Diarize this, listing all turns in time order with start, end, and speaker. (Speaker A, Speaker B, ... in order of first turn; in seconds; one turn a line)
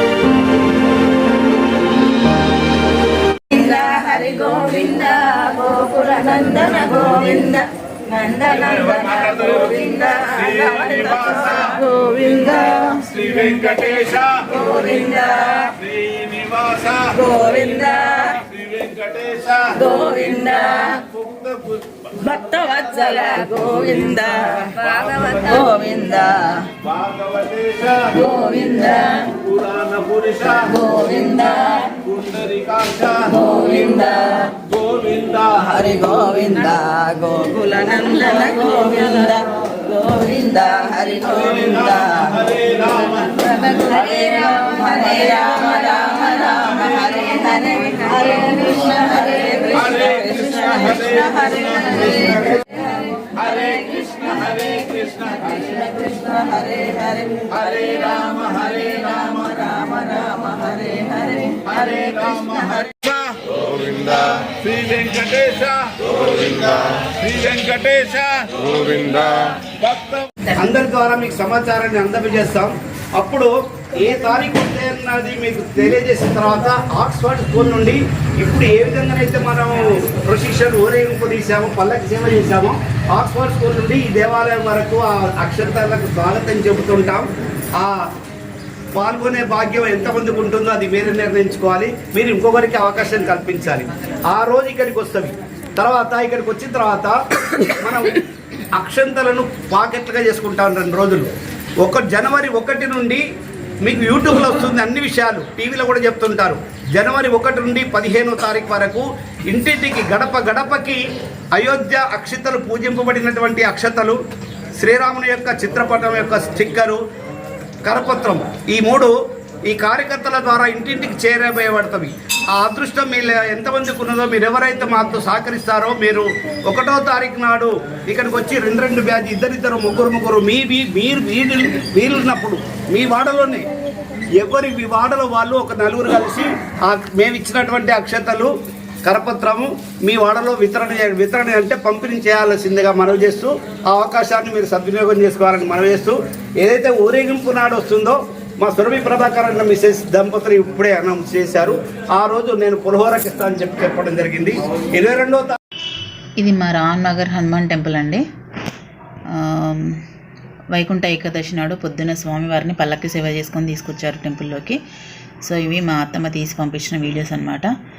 Speaker A: 3.5-15.8
Speaker B: 10.9-11.3
Speaker B: 13.3-14.4
Speaker B: 15.8-17.2
Speaker A: 17.1-18.4
Speaker B: 18.4-19.8
Speaker A: 19.7-21.0
Speaker B: 21.0-22.1
Speaker A: 22.1-26.8
Speaker B: 26.8-28.1
Speaker A: 28.1-29.4
Speaker B: 29.3-30.6
Speaker A: 30.5-32.1
Speaker B: 32.1-33.3
Speaker A: 33.3-34.7
Speaker B: 34.6-35.6
Speaker A: 35.4-63.1
Speaker B: 42.5-42.9
Speaker B: 62.9-70.3
Speaker C: 70.5-87.2
Speaker C: 87.8-88.1
Speaker C: 88.9-98.2
Speaker C: 98.7-101.3
Speaker C: 101.8-103.2
Speaker C: 103.8-111.0
Speaker C: 111.5-114.2
Speaker C: 114.8-117.0
Speaker C: 117.8-119.1
Speaker C: 119.7-133.7
Speaker C: 134.3-138.5
Speaker C: 139.0-155.6
Speaker D: 156.4-158.2
Speaker D: 159.3-160.0
Speaker D: 160.7-164.8
Speaker D: 165.4-167.7